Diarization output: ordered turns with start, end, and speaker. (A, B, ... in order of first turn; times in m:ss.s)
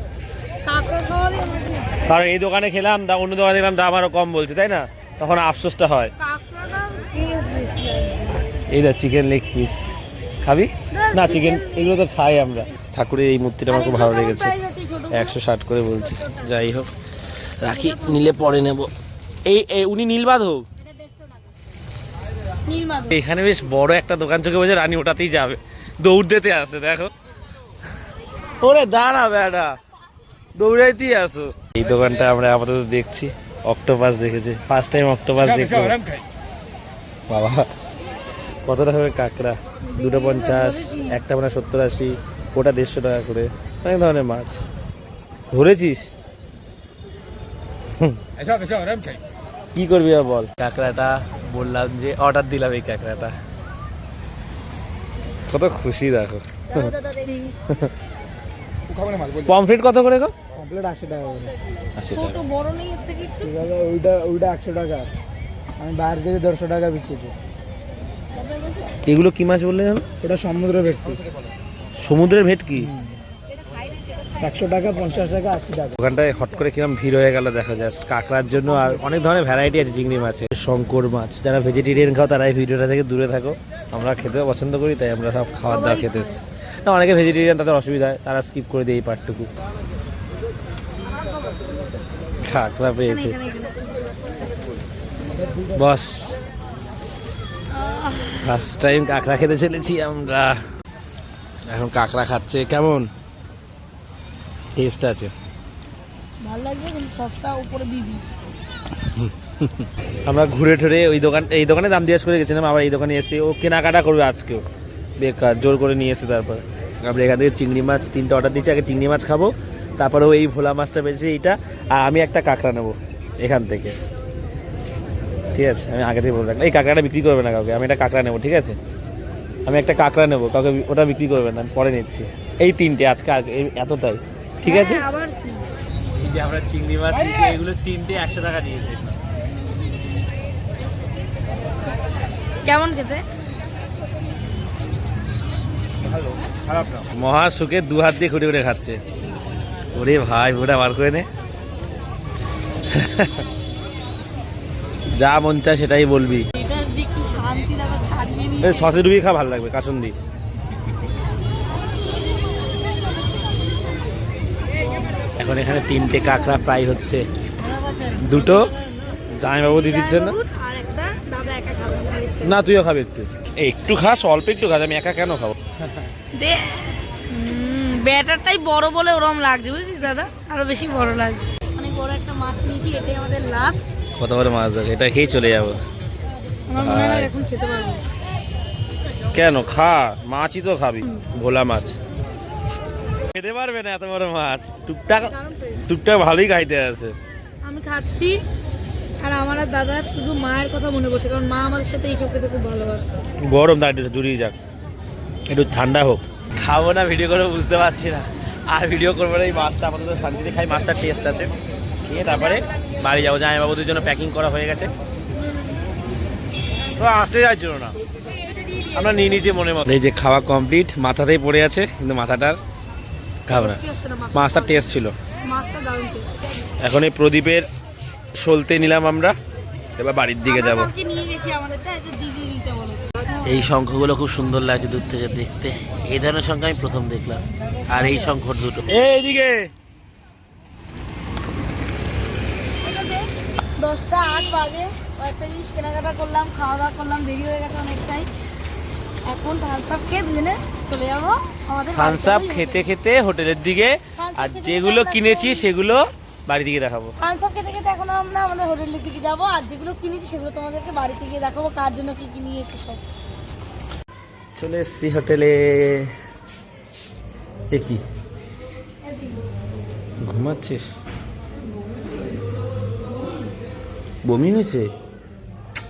0:00.7-0:02.0 A
0:02.0-0:06.1 B
0:06.2-0:08.5 A
0:08.6-0:14.5 B
0:10.9-0:11.9 A
0:13.7-0:15.4 A
0:15.1-0:16.9 B
0:17.6-0:18.9 B
0:17.6-0:18.6 A
0:19.4-0:20.7 B
0:22.6-0:23.2 A
0:23.1-0:27.1 B
0:28.6-0:29.8 B
0:30.6-0:36.0 B
0:37.3-0:37.7 B
0:38.6-0:44.6 B
0:39.9-0:41.2 A
0:45.5-0:46.1 B
0:49.7-0:53.3 B
0:55.5-0:57.0 B
0:56.8-0:57.5 A
0:59.3-1:00.3 B
1:00.6-1:01.6 C
1:02.0-1:02.4 B
1:02.1-1:03.7 A
1:03.4-1:05.1 C
1:05.8-1:07.4 C
1:09.0-1:10.1 B
1:10.2-1:11.2 C
1:12.0-1:12.9 B
1:14.4-1:15.9 C
1:15.9-1:29.5 B
1:25.7-1:26.4 A
1:32.4-1:33.4 B
1:33.1-1:33.9 A
1:35.7-1:36.4 B
1:37.7-1:38.5 A
1:38.4-1:40.6 B
1:41.7-1:43.1 B
1:44.8-1:45.3 B
1:46.4-1:48.2 A
1:49.0-1:54.6 B
1:55.2-2:04.0 B
2:05.5-2:08.8 B
2:09.7-2:15.1 B
2:14.6-2:15.7 A
2:16.1-2:19.2 B
2:22.6-2:23.3 A
2:26.0-2:29.0 B
2:29.9-2:31.3 B
2:32.9-2:33.4 B
2:35.2-2:36.5 B
2:36.6-2:39.0 A
2:38.6-2:40.2 B
2:45.4-2:47.3 B
2:48.2-2:48.6 B
2:49.4-2:50.4 B
2:49.6-2:52.6 A
2:52.4-2:55.6 B
2:56.3-3:03.9 A
3:04.2-3:05.8 B
3:06.7-3:08.0 A
3:06.8-3:07.3 B
3:09.3-3:12.0 B
3:13.3-3:17.1 B
3:15.3-3:15.8 A
3:17.6-3:18.4 A
3:19.2-3:23.3 A
3:23.4-3:24.6 B
3:25.5-3:31.5 B
3:32.1-3:34.9 B
3:35.5-3:35.8 A
3:36.9-3:38.0 B
3:38.6-3:39.2 A
3:38.9-3:42.6 B
3:43.5-3:45.2 B
3:43.5-3:44.9 A
3:45.4-3:46.4 A
3:46.8-3:47.7 B
3:48.4-3:49.4 B
3:50.0-3:50.9 B
3:50.4-3:53.6 A
3:53.4-3:59.7 B
4:02.8-4:08.3 A
4:09.3-4:12.9 A
4:11.9-4:17.1 B
4:14.2-4:15.7 A
4:17.2-4:23.0 A
4:24.6-4:26.1 B
4:27.7-4:28.0 B
4:30.2-4:30.9 B
4:34.2-4:34.9 B